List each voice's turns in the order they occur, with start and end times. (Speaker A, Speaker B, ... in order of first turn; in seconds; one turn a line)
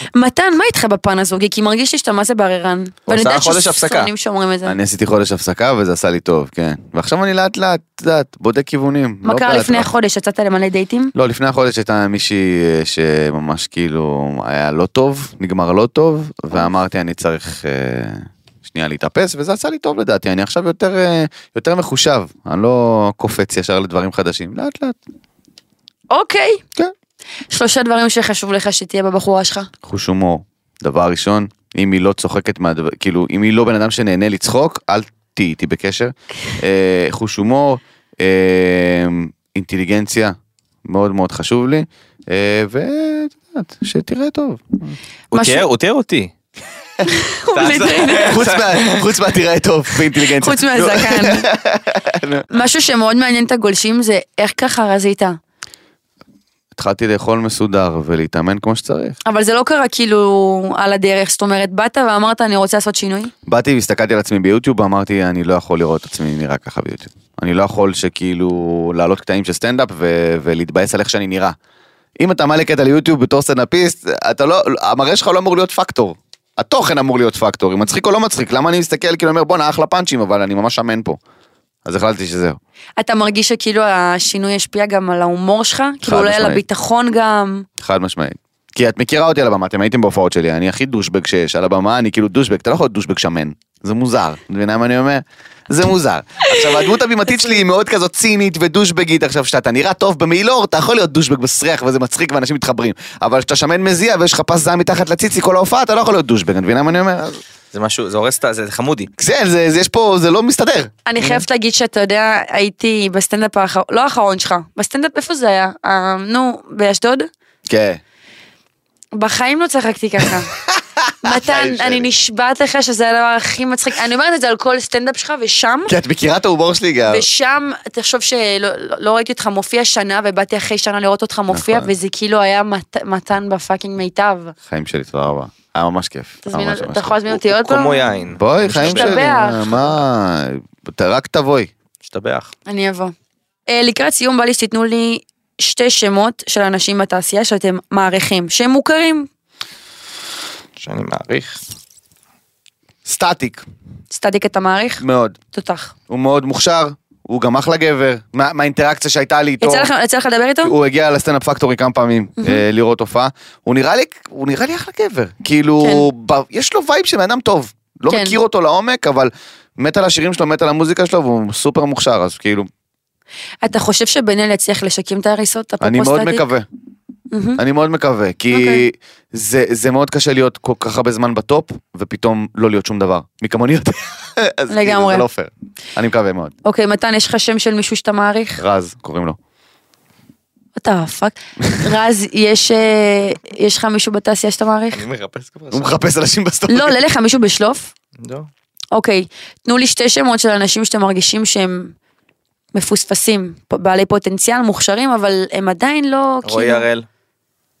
Speaker A: 0.1-4.8
Speaker B: 3.1-4.1
Speaker C: 4.7-9.9
Speaker A: 9.2-11.1
Speaker C: 11.1-25.0
Speaker A: 26.1-26.6
Speaker A: 27.5-29.7
Speaker C: 29.8-45.0
Speaker B: 45.3-46.3
Speaker A: 45.3-45.6
Speaker A: 47.0-48.4
Speaker B: 47.5-49.1
Speaker C: 48.1-52.5
Speaker A: 50.3-51.5
Speaker A: 52.5-55.4
Speaker C: 56.7-59.2
Speaker A: 59.2-63.3
Speaker C: 63.5-71.5
Speaker C: 72.2-81.2
Speaker C: 81.8-82.6
Speaker A: 83.0-87.7
Speaker C: 86.0-86.6
Speaker C: 87.8-107.4
Speaker B: 107.7-109.1
Speaker C: 109.2-111.4
Speaker A: 111.0-117.3
Speaker C: 117.7-118.0
Speaker A: 119.2-120.5
Speaker C: 120.5-122.1
Speaker A: 121.2-126.0
Speaker C: 125.9-127.2
Speaker A: 127.1-134.5
Speaker C: 131.5-131.9
Speaker C: 134.7-137.4
Speaker A: 136.4-138.1
Speaker B: 137.4-139.8
Speaker C: 138.4-141.7
Speaker A: 138.8-139.7
Speaker B: 142.0-142.5
Speaker A: 142.7-143.1
Speaker A: 143.7-149.3
Speaker B: 150.8-151.6
Speaker C: 153.1-153.6
Speaker A: 154.1-155.9
Speaker C: 155.0-155.3
Speaker C: 156.1-159.9
Speaker A: 159.6-160.7
Speaker C: 160.6-172.7
Speaker A: 162.4-162.6
Speaker A: 165.8-166.1
Speaker A: 168.1-168.4
Speaker A: 173.6-176.5
Speaker C: 175.8-176.7
Speaker A: 177.3-177.6
Speaker C: 177.6-186.5
Speaker A: 178.5-178.8
Speaker A: 184.7-185.2
Speaker A: 186.6-188.6
Speaker C: 188.6-189.4
Speaker A: 190.8-195.0
Speaker B: 194.9-195.9
Speaker C: 195.7-197.0
Speaker A: 196.7-197.9
Speaker B: 198.2-198.5
Speaker A: 198.9-201.9
Speaker A: 202.7-206.8
Speaker B: 206.4-207.1